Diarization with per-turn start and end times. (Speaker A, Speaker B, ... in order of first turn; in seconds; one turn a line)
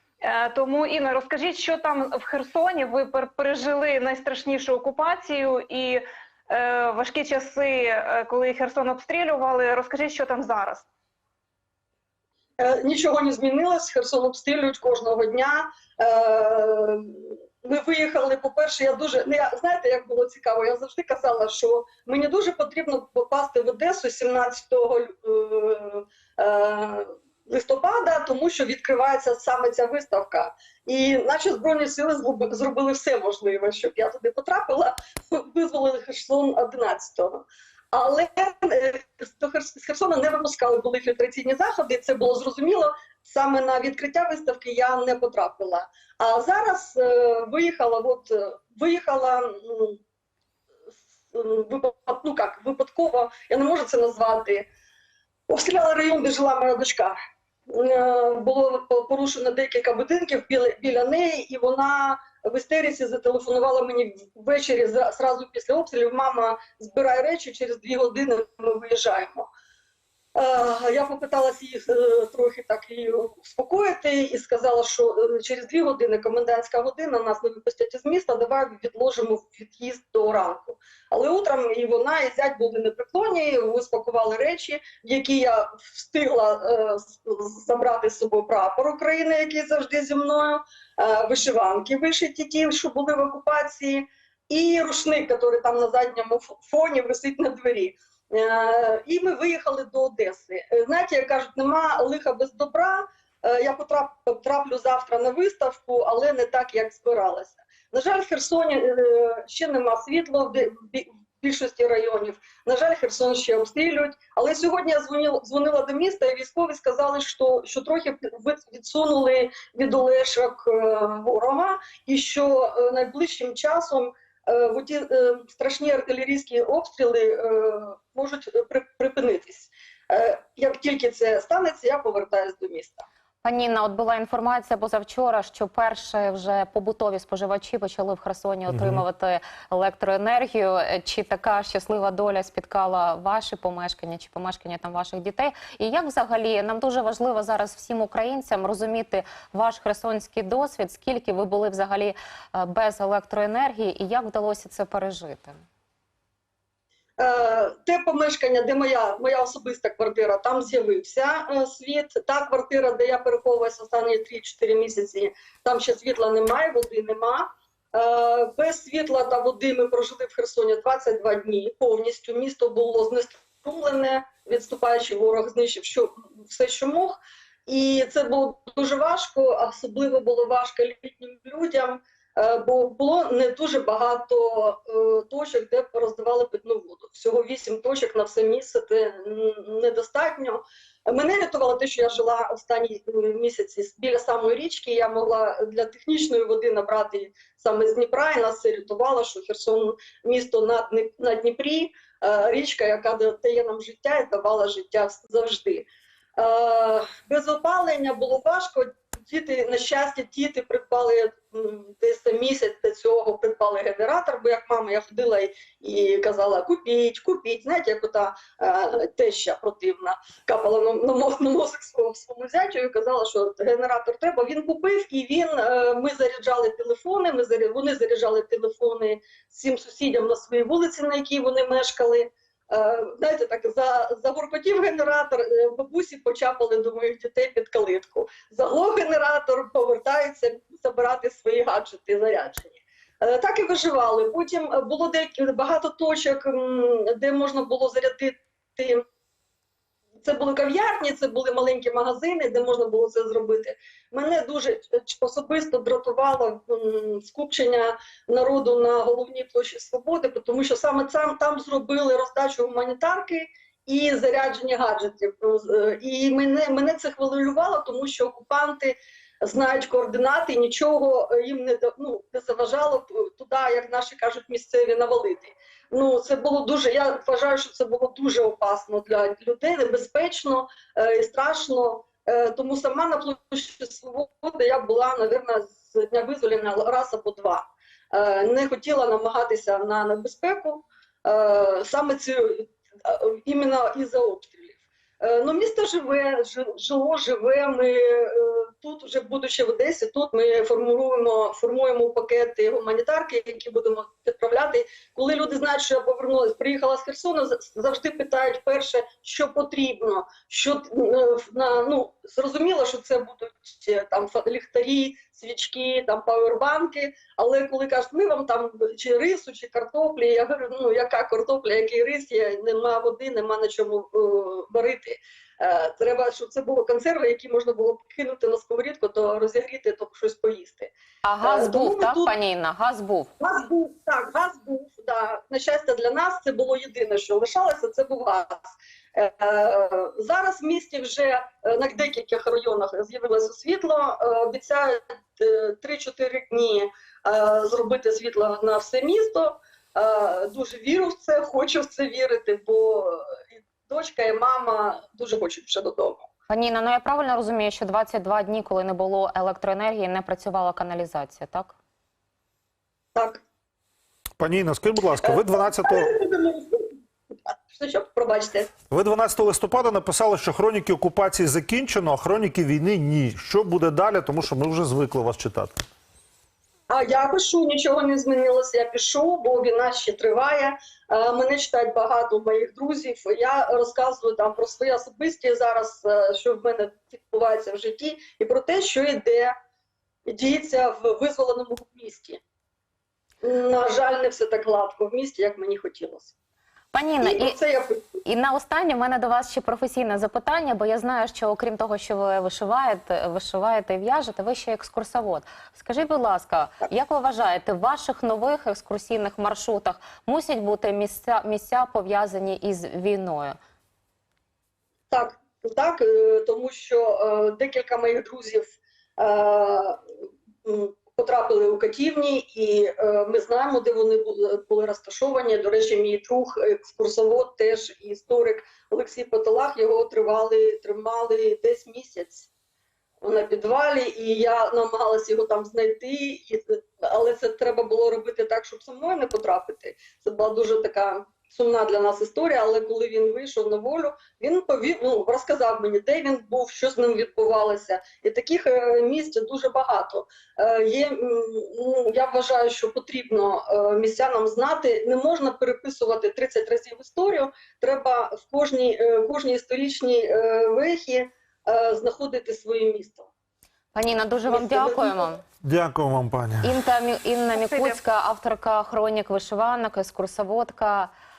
Speaker A: 0.2-10.9
Speaker B: 12.6-50.0
Speaker B: 51.3-54.7
Speaker B: 55.5-57.2
Speaker B: 57.7-69.5
Speaker B: 70.3-133.1
Speaker C: 133.4-155.6
Speaker D: 138.7-139.0
Speaker B: 157.2-249.0
Speaker B: 250.2-330.9
Speaker C: 331.2-333.3
Speaker B: 331.4-332.3
Speaker B: 333.4-356.3
Speaker C: 356.5-361.8
Speaker B: 363.1-363.4
Speaker D: 364.4-366.1
Speaker B: 365.2-368.7
Speaker D: 368.9-375.8
Speaker B: 376.9-389.6
Speaker B: 390.3-392.4
Speaker B: 393.4-396.3
Speaker C: 396.9-397.6
Speaker B: 397.2-398.2
Speaker C: 398.2-413.6
Speaker B: 415.1-420.0
Speaker B: 420.6-432.5
Speaker B: 433.2-463.3
Speaker C: 463.9-465.4
Speaker B: 464.5-465.3
Speaker D: 465.6-466.8
Speaker C: 466.6-471.1
Speaker A: 467.6-468.0